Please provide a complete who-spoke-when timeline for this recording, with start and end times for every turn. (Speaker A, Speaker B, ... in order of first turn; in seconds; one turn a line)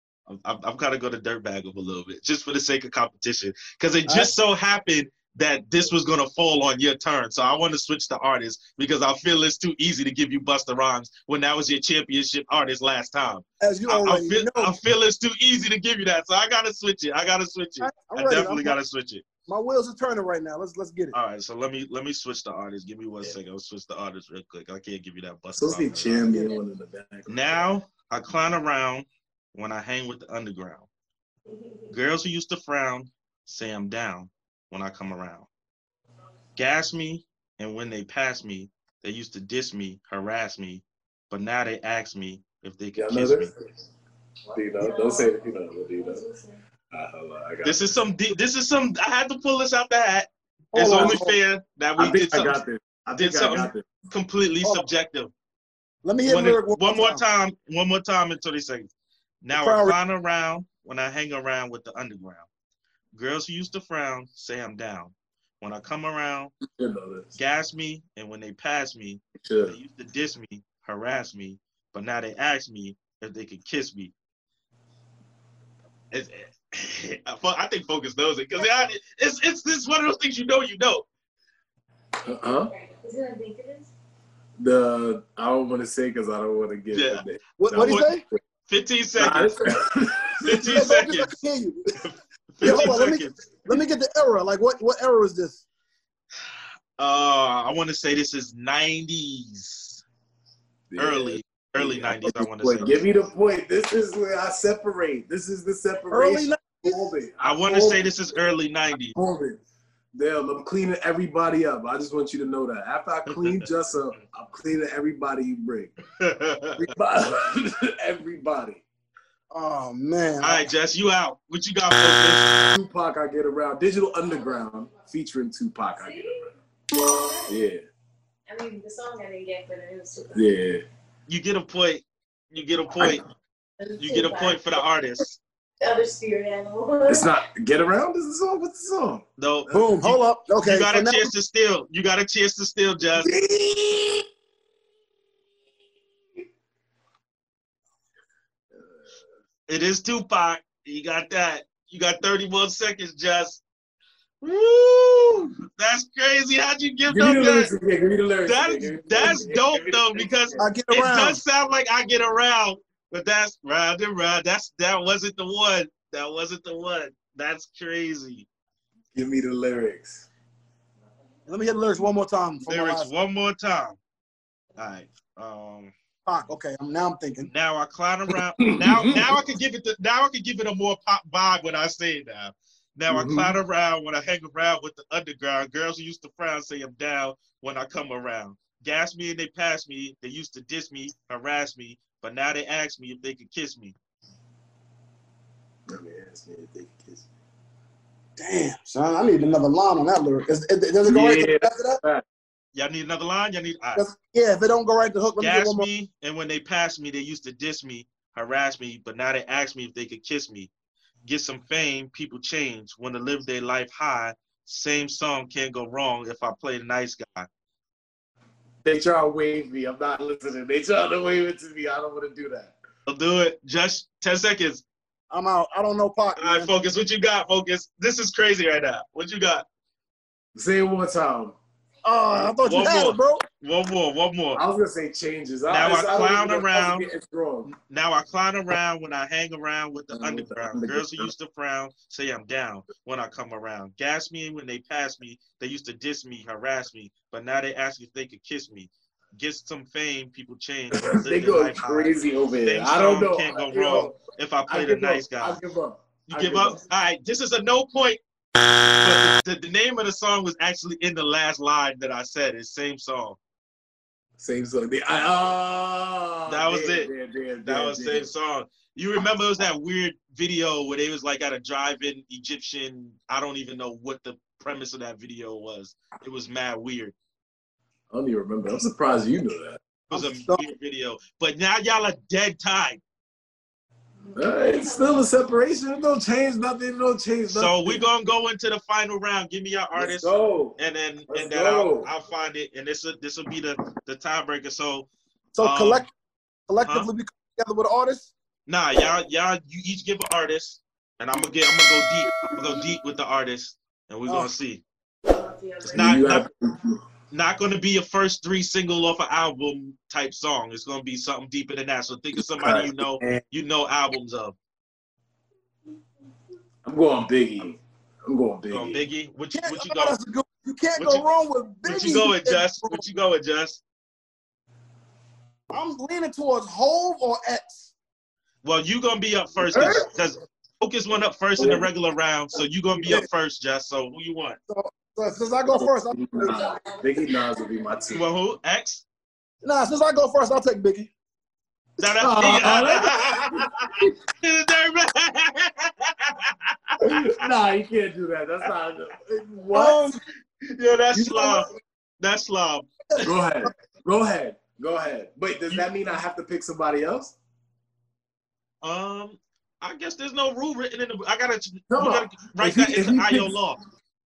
Speaker A: 0.3-19.2
Speaker B: 4.1-4.3
Speaker B: 13.6-14.7
Speaker B: 17.8-18.8
Speaker B: 19.5-21.1
Speaker A: 21.1-26.3
Speaker C: 25.5-27.8
Speaker B: 26.2-26.6
Speaker A: 27.3-30.9
Speaker A: 31.9-35.5
Speaker A: 36.6-43.5
Speaker C: 43.0-43.6
Speaker C: 44.5-46.2
Speaker D: 44.5-46.6
Speaker C: 46.9-47.8
Speaker A: 47.6-52.6
Speaker B: 50.7-51.4
Speaker C: 50.9-51.2
Speaker C: 52.0-53.9
Speaker A: 53.1-55.3
Speaker B: 56.0-57.2
Speaker A: 56.3-58.9
Speaker A: 59.4-62.5
Speaker B: 59.5-60.0
Speaker A: 63.1-66.5
Speaker C: 66.7-67.4
Speaker A: 67.4-74.1
Speaker C: 69.4-69.8
Speaker A: 76.1-81.1
Speaker C: 82.2-82.7
Speaker D: 82.7-83.9
Speaker C: 84.6-88.1
Speaker A: 86.9-88.1
Speaker B: 87.6-88.2
Speaker A: 88.7-89.7
Speaker C: 89.2-90.7
Speaker A: 90.4-91.3
Speaker B: 90.6-91.8
Speaker A: 92.0-93.4
Speaker B: 92.6-95.6
Speaker A: 97.0-100.0
Speaker C: 100.9-108.1
Speaker A: 101.0-103.0
Speaker B: 106.1-107.1
Speaker A: 107.4-109.2
Speaker C: 109.1-109.6
Speaker C: 110.1-116.0
Speaker A: 113.3-113.7
Speaker A: 116.2-116.9
Speaker C: 116.8-118.8
Speaker B: 119.5-120.7
Speaker A: 120.4-122.6
Speaker C: 122.7-126.5
Speaker D: 126.0-127.6
Speaker C: 127.5-127.8
Speaker D: 128.5-130.6
Speaker C: 130.3-130.8
Speaker A: 131.3-133.2
Speaker D: 133.8-134.8
Speaker A: 134.0-135.4
Speaker D: 135.8-137.4
Speaker C: 137.1-139.3
Speaker A: 139.4-143.3
Speaker B: 139.7-141.3
Speaker C: 143.2-144.2
Speaker A: 149.7-153.6
Speaker A: 154.4-157.7
Speaker C: 157.1-160.7
Speaker A: 158.4-168.5
Speaker B: 160.6-161.4
Speaker C: 169.1-170.3
Speaker B: 171.5-173.1
Speaker A: 172.7-174.0
Speaker A: 174.8-175.9
Speaker B: 176.3-177.5
Speaker A: 177.5-193.9
Speaker C: 178.6-179.3
Speaker C: 183.1-183.6
Speaker C: 195.9-197.3
Speaker B: 198.4-202.0
Speaker C: 201.0-202.2
Speaker A: 202.8-204.1
Speaker B: 204.0-205.9
Speaker A: 205.4-210.7
Speaker A: 211.2-217.5
Speaker C: 218.8-222.8
Speaker A: 223.1-224.8
Speaker B: 225.3-226.7
Speaker A: 226.4-229.6
Speaker C: 230.6-231.6
Speaker B: 232.1-233.4
Speaker A: 232.6-234.6
Speaker C: 234.6-237.7
Speaker A: 235.7-237.1
Speaker A: 237.7-255.6
Speaker C: 240.1-241.3
Speaker C: 250.9-256.8
Speaker A: 256.3-258.2
Speaker A: 259.0-263.4
Speaker C: 264.4-268.3
Speaker A: 266.5-267.1
Speaker A: 267.6-277.1
Speaker C: 278.1-279.8
Speaker A: 280.1-283.0
Speaker B: 280.1-280.6
Speaker D: 284.3-285.4
Speaker C: 284.3-288.0
Speaker A: 287.5-295.1
Speaker C: 290.0-290.8
Speaker C: 291.3-292.1
Speaker B: 295.6-296.1
Speaker A: 295.6-296.1
Speaker B: 296.7-298.3
Speaker A: 298.7-304.8
Speaker D: 305.3-306.3
Speaker A: 305.9-306.5
Speaker C: 305.9-307.0
Speaker A: 307.3-314.6
Speaker C: 312.4-313.4
Speaker C: 316.9-319.0
Speaker A: 318.7-320.2
Speaker B: 319.5-323.0
Speaker A: 321.0-321.3
Speaker A: 321.9-323.8
Speaker B: 325.7-327.9
Speaker A: 328.6-334.6
Speaker B: 329.6-330.1
Speaker C: 331.6-331.9
Speaker B: 334.7-336.7
Speaker C: 336.1-338.2
Speaker A: 338.1-339.0
Speaker B: 339.6-341.1
Speaker A: 342.0-347.4
Speaker C: 342.1-343.6
Speaker C: 347.0-350.0
Speaker B: 349.7-350.1
Speaker A: 350.6-351.7
Speaker C: 351.2-351.6
Speaker A: 352.2-353.3
Speaker C: 353.2-357.4
Speaker A: 358.8-363.8
Speaker C: 361.9-363.6